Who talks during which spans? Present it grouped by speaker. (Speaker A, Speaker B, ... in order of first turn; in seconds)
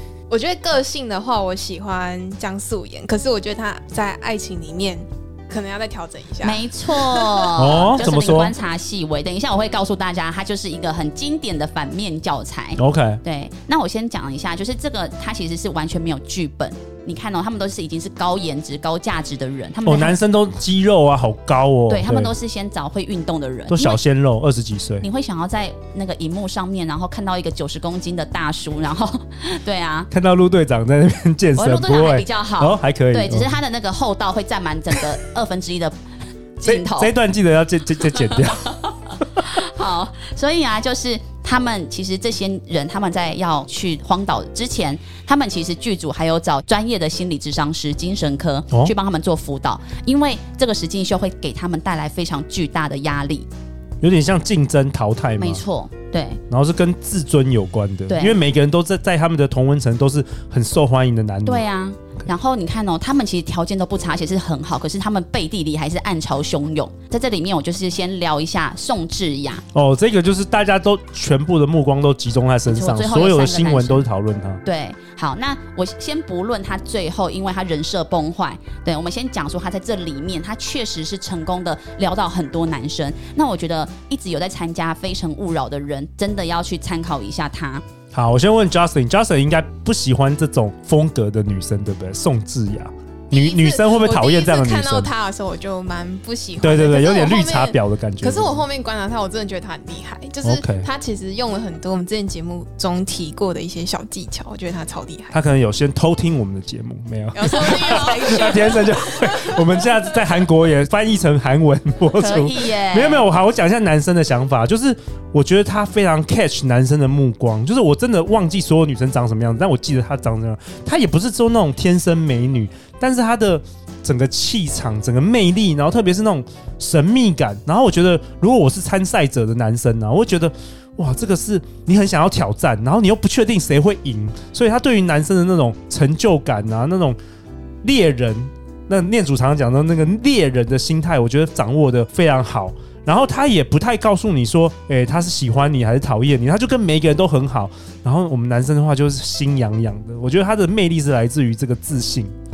Speaker A: 0.3-7.5, 93.3-105.4, 107.3-109.6
Speaker B: 6.4-20.2, 21.9-24.0, 25.0-30.1, 31.5-35.9, 36.6-37.1, 38.3-38.9, 39.4-53.5, 55.4-56.4, 58.1-58.4, 61.4-69.6, 72.7-74.0, 74.6-87.8, 112.0-113.3
Speaker C: 7.5-8.6, 12.8-13.2, 19.8-22.3, 23.7-25.1, 30.1-33.5, 36.6-39.4, 54.0-55.6, 56.5-61.6, 69.7-74.6, 88.1-95.1, 96.6-98.6, 100.4-100.9, 105.3-137.2, 137.8-152.3